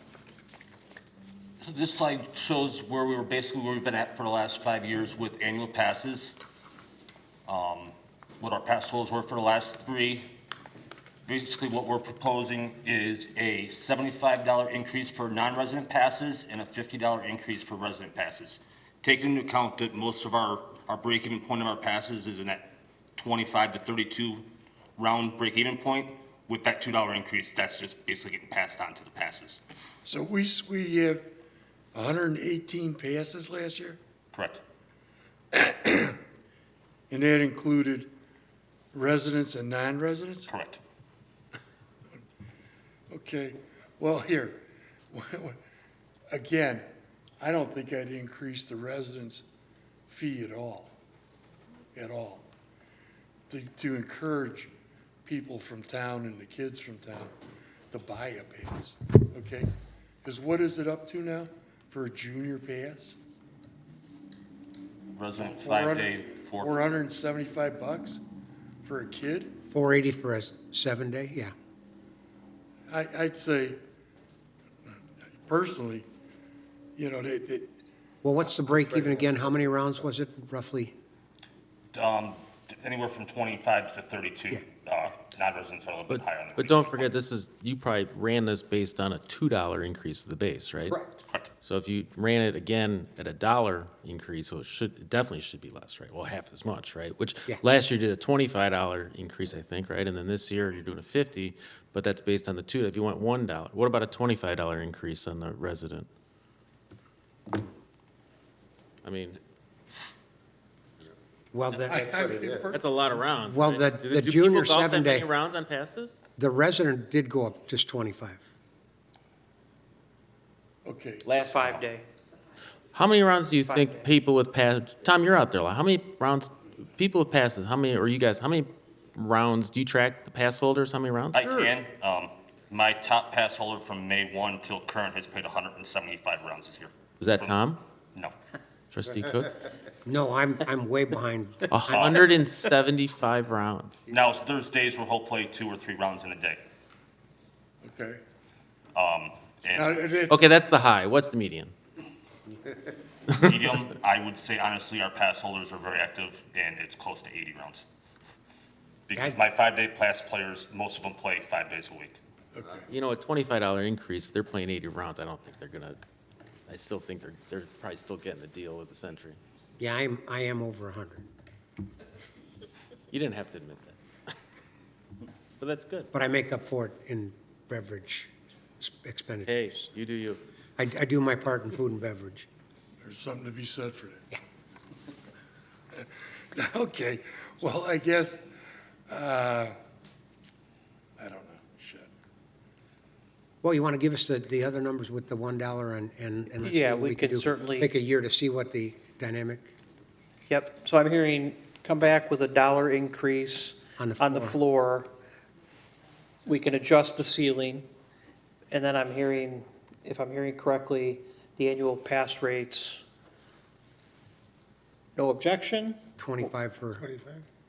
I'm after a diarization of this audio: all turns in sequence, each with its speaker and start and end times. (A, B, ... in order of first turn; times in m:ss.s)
0:01.6-0:06.4 A
0:07.5-0:10.3 A
0:11.2-0:24.4 A
0:25.0-0:29.6 A
0:30.0-0:31.3 B
0:31.9-0:34.0 B
0:34.3-0:34.6 A
0:35.5-0:36.2 B
0:37.1-0:38.1 B
0:38.9-0:40.5 B
0:40.5-0:40.8 A
0:43.1-0:45.6 B
0:46.3-0:46.9 B
0:47.4-0:49.4 B
0:50.1-0:50.9 B
0:52.0-0:52.5 B
0:53.5-0:54.7 B
0:55.2-0:57.3 B
0:57.9-0:59.7 B
1:00.2-1:03.2 B
1:05.2-1:06.7 A
1:05.5-1:08.2 B
1:08.8-1:09.5 B
1:09.7-1:11.5 C
1:12.9-1:13.8 B
1:15.5-1:16.1 B
1:17.0-1:17.7 B
1:18.2-1:20.9 C
1:21.9-1:27.1 A
1:26.1-1:31.0 D
1:30.9-1:31.1 E
1:31.6-1:46.1 D
1:49.0-1:49.4 D
1:51.5-1:52.2 C
1:51.8-1:52.6 E
1:51.9-1:53.3 B
1:52.7-1:56.2 D
1:53.4-1:55.3 C
1:56.4-1:58.4 C
2:00.8-2:01.3 B
2:01.2-2:02.0 E
2:03.0-2:11.4 D
2:03.6-2:04.1 E
2:11.3-2:17.6 A
2:11.4-2:11.7 B
2:17.2-2:17.8 D
2:18.9-2:19.6 D
2:20.0-2:22.1 C
2:21.7-2:24.0 D
2:21.9-2:22.2 A
2:24.1-2:26.6 A
2:27.8-2:28.2 B
2:28.9-2:30.0 A
2:29.7-2:30.4 B
2:30.3-2:31.7 D
2:33.3-2:37.8 A
2:39.1-2:42.2 A
2:42.5-2:42.9 B
2:42.9-2:46.0 D
2:46.7-2:49.4 D
2:49.8-2:51.2 C
2:53.1-2:54.0 D
2:55.6-2:56.1 D
2:56.1-2:58.3 C
2:58.8-2:59.8 C
2:59.4-3:00.4 D
3:00.8-3:02.5 C
3:03.0-3:04.2 B
3:05.9-3:08.4 B
3:09.1-3:09.7 B
3:11.2-3:12.1 B
3:13.6-3:19.7 C
3:16.6-3:17.9 E
3:20.5-3:25.1 E
3:24.0-3:24.6 C
3:26.4-3:27.8 E
3:28.7-3:33.0 E
3:35.2-3:36.5 E
3:36.2-3:37.1 C